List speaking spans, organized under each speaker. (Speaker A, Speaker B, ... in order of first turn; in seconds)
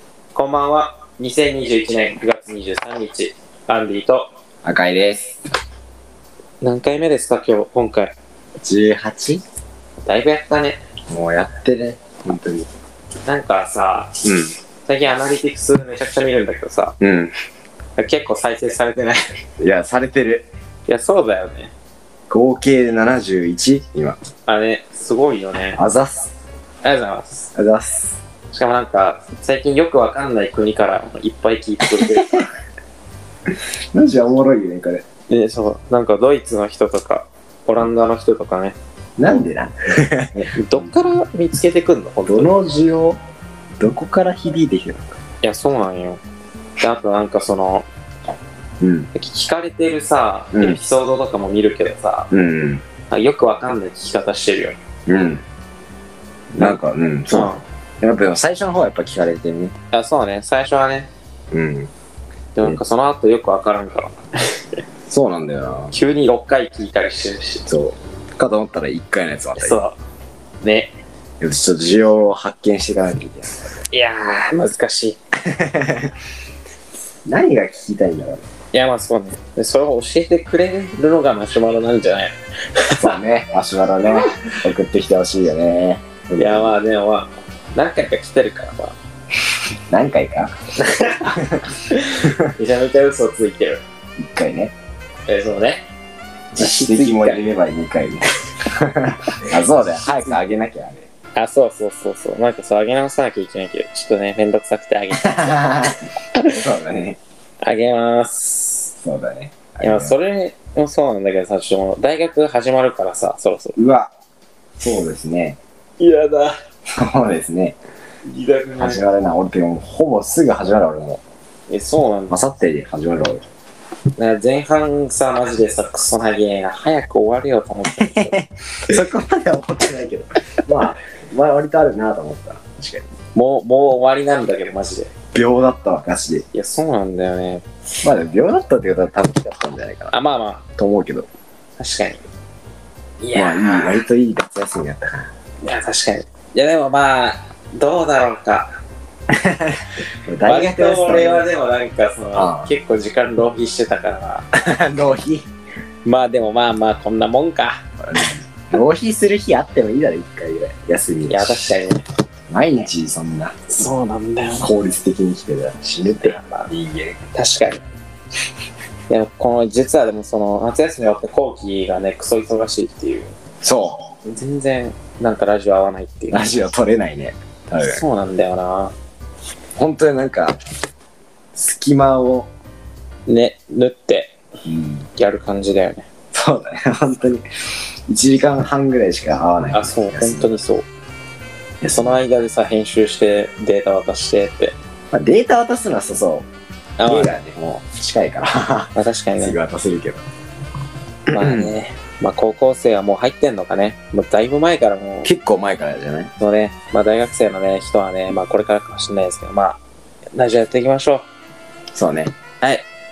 Speaker A: 0.3-4.3, 6.6-8.1, 10.0-10.8, 13.2-14.2, 14.8-17.0, 17.9-19.2, 20.9-21.7, 24.4-25.8, 26.8-27.5, 28.5-32.5, 35.3-39.4, 40.5-42.6, 45.4-46.2, 46.8-47.9, 49.1-52.3, 53.1-54.8, 56.5-56.8, 57.3-57.6, 59.9-61.1, 62.5-64.8, 65.9-67.7, 69.6-70.0, 70.6-70.9, 73.9-75.2, 78.7-83.1, 84.1-84.5, 86.4-88.9, 90.8-93.8, 95.3-95.8, 96.5-97.5, 101.3-106.6, 107.6-108.9, 109.8-113.8, 116.0-116.6, 118.3-119.0, 121.7-122.4, 124.2-128.3, 133.3-135.1, 136.5-137.6, 140.1-140.6, 141.8-142.2, 143.2-144.0, 145.6-148.7, 150.4-154.5, 156.0-157.8, 161.3-162.0, 163.7-164.7, 166.2-166.7, 167.3-167.8, 169.1-173.3, 174.2-176.6, 177.8-178.9, 183.3-184.4, 185.2-186.1, 189.7-190.8, 191.9-194.8, 197.0-197.3, 198.9-199.6, 201.3-205.3, 206.4-209.8, 210.3-211.2
Speaker B: 4.6-5.4, 8.6-9.4, 11.1-12.7, 14.2-14.5, 17.0-17.3, 19.6-20.5, 22.3-24.2, 25.8-26.3, 27.5-28.2, 32.0-32.4, 33.9-35.0, 39.2-40.9, 42.3-43.2, 43.8-45.2, 48.8-49.1, 50.5-50.8, 52.3-52.8, 55.1-55.4, 56.5-59.7, 61.5-61.9, 65.1-65.9, 67.7-69.8, 71.4-73.8, 75.4-76.1, 77.2-78.4, 82.9-86.8, 89.9-90.5, 91.3-91.7, 92.2-92.5, 94.2-94.7, 96.5-101.0, 105.2-107.2, 109.0-110.2, 113.8-114.1, 114.8-115.6, 116.9-117.8, 118.8-121.2, 122.3-123.4, 128.0-133.1, 135.3-136.4, 138.0-140.1, 140.8-141.3, 143.3-145.3, 149.3-151.5, 152.3-152.7, 154.5-155.5, 158.0-161.7, 162.5-163.7, 164.6-167.2, 173.6-174.1, 176.3-178.0, 179.8-180.6, 181.5-182.5, 184.6-185.1, 186.3-187.4, 188.1-190.5, 191.8-192.2, 195.1-196.5, 197.0-200.2, 201.3-201.7, 205.2-206.3, 211.9-212.3